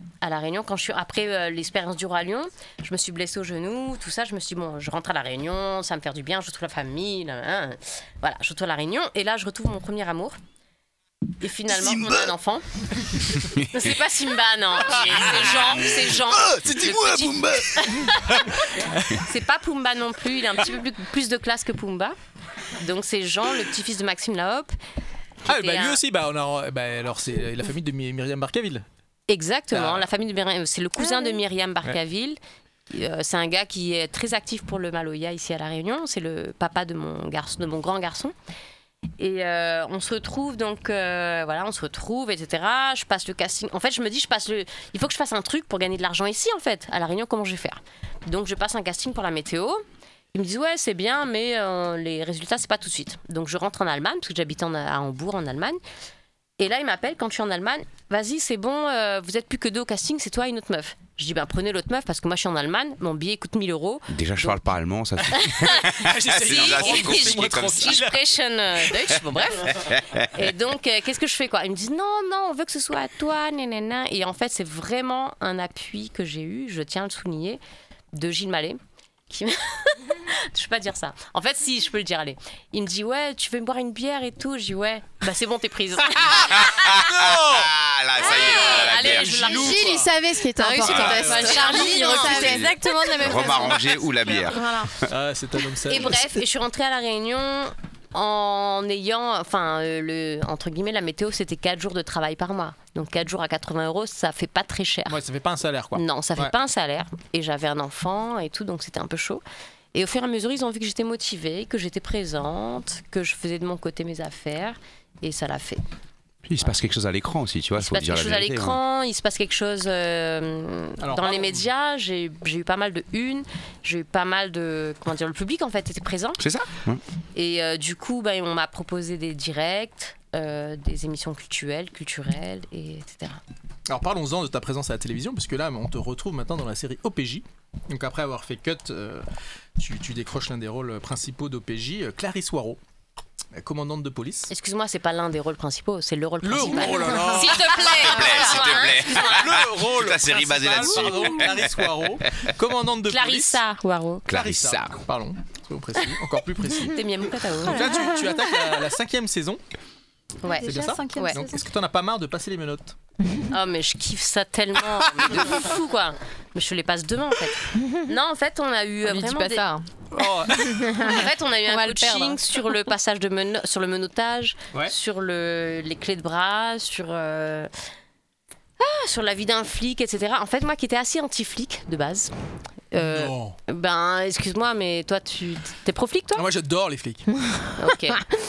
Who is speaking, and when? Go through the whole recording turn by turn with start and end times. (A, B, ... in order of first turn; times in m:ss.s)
0:00.2-0:10.4 A
0:11.4-0:12.6 A
0:13.6-0:18.5 A
0:16.6-0:16.9 B
0:19.2-0:22.2 A
0:22.8-0:24.8 A
0:25.5-0:28.8 C
0:25.5-0:26.0 A
0:29.3-0:32.4 A
0:29.7-0:30.0 C
0:32.9-0:38.3 A
0:39.2-0:49.8 A
0:50.3-0:55.8 A
0:56.6-1:04.6 A
1:04.1-1:08.0 B
1:05.4-1:09.8 A
1:06.0-1:08.2 C
1:09.7-1:10.3 B
1:10.4-1:17.6 A
1:18.1-1:26.9 A
1:26.3-1:29.5 B
1:26.8-1:27.7 C
1:28.2-1:30.1 A
1:28.8-1:30.1 C
1:29.5-1:32.7 D
1:30.6-1:33.8 E
1:30.8-1:31.2 B
1:30.8-1:31.8 C
1:30.9-1:32.7 A
1:32.2-1:34.9 B
1:34.5-1:34.9 D
1:35.1-1:36.3 C
1:35.9-1:45.2 A
1:45.1-1:46.5 C
1:46.0-1:49.4 A
1:49.9-1:55.8 A
1:56.4-1:58.8 B
1:57.8-2:06.4 A
2:01.0-2:01.7 C
2:06.4-2:07.0 B
2:07.4-2:13.4 A
2:13.9-2:19.2 C
2:19.8-2:22.8 C
2:23.6-2:24.5 C
2:24.5-2:29.6 A
2:26.4-2:33.6 C
2:27.8-2:31.9 B
2:33.1-2:34.3 A
2:34.3-2:35.0 B
2:34.3-2:37.0 C
2:36.8-2:38.0 A
2:37.6-2:39.6 C
2:40.4-2:41.4 A
2:40.5-2:41.4 E
2:40.6-2:43.0 C
2:43.5-2:49.7 A
2:49.0-2:49.8 E
2:50.1-2:51.0 C
2:50.9-2:51.2 D
2:51.0-2:57.7 A
2:51.7-2:52.4 E
2:58.8-3:02.3 A
3:02.9-3:06.5 A
3:03.0-3:03.6 C
3:06.4-3:07.3 C
3:07.8-3:08.2 A